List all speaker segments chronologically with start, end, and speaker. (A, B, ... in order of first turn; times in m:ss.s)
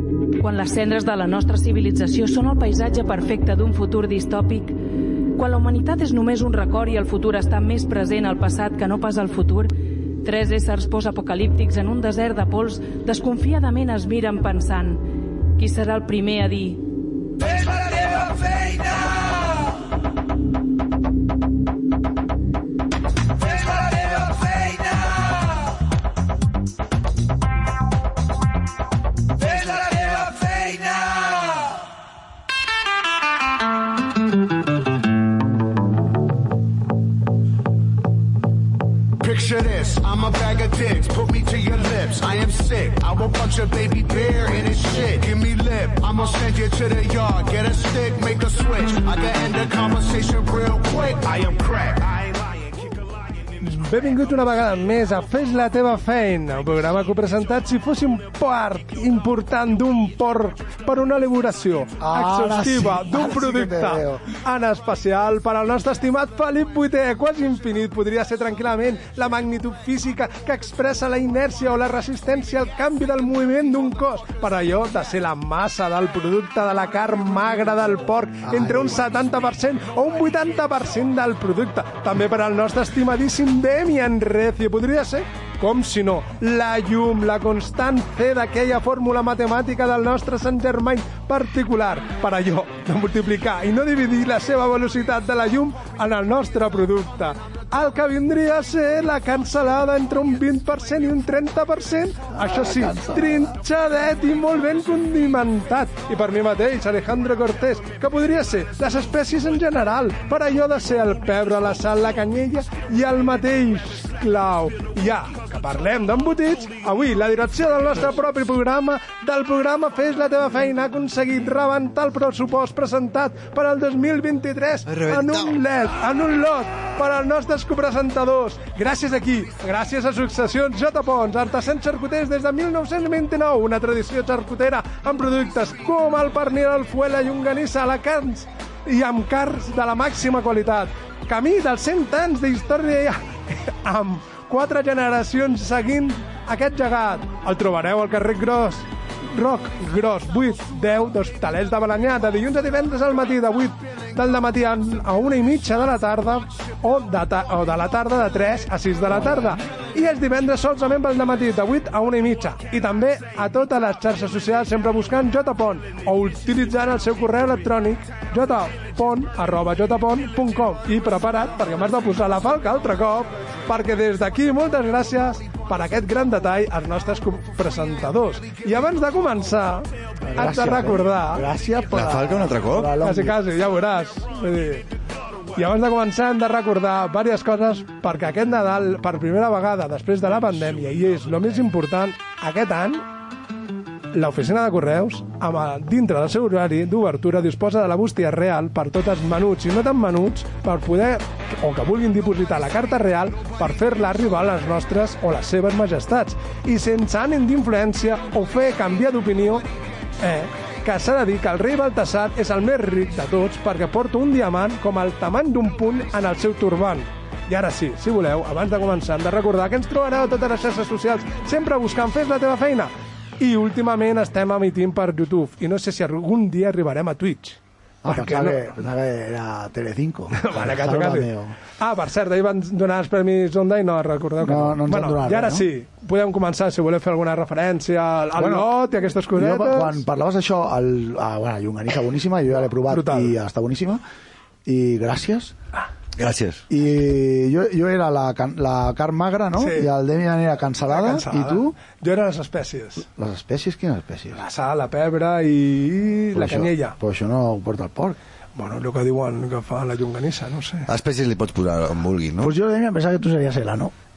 0:00.4-0:04.8 A
0:05.4-0:09.7 A
0:10.2-0:15.0 A
0:15.6-0:16.8 A
0:17.4-0:19.1 A
0:29.5-0:31.5 A
0:39.2-0:52.5 B
0:53.6-3:01.5 C
1:02.0-1:04.2 D
1:18.4-1:19.0 D
1:42.3-1:43.5 D
2:04.9-2:05.6 E
3:00.2-3:03.4 D
3:01.9-3:02.9 E
3:03.0-3:04.9 C
3:05.6-3:13.0 C
3:14.1-3:29.6 C
3:30.2-3:48.6 C
3:48.0-3:51.6 D
3:50.4-3:51.3 C
3:51.8-4:00.0 C
3:54.4-3:55.7 D
3:58.4-3:58.7 D
3:59.4-4:04.0 D
4:02.9-4:03.4 C
4:04.7-4:05.6 D
4:06.2-4:06.6 E
4:06.7-4:11.8 D
4:09.6-4:09.9 C
4:10.9-4:13.1 C
4:13.2-4:14.4 D
4:14.4-4:17.0 C
4:16.3-4:18.2 D
4:18.6-4:20.9 C
4:20.9-4:22.5 E
4:22.4-4:23.9 D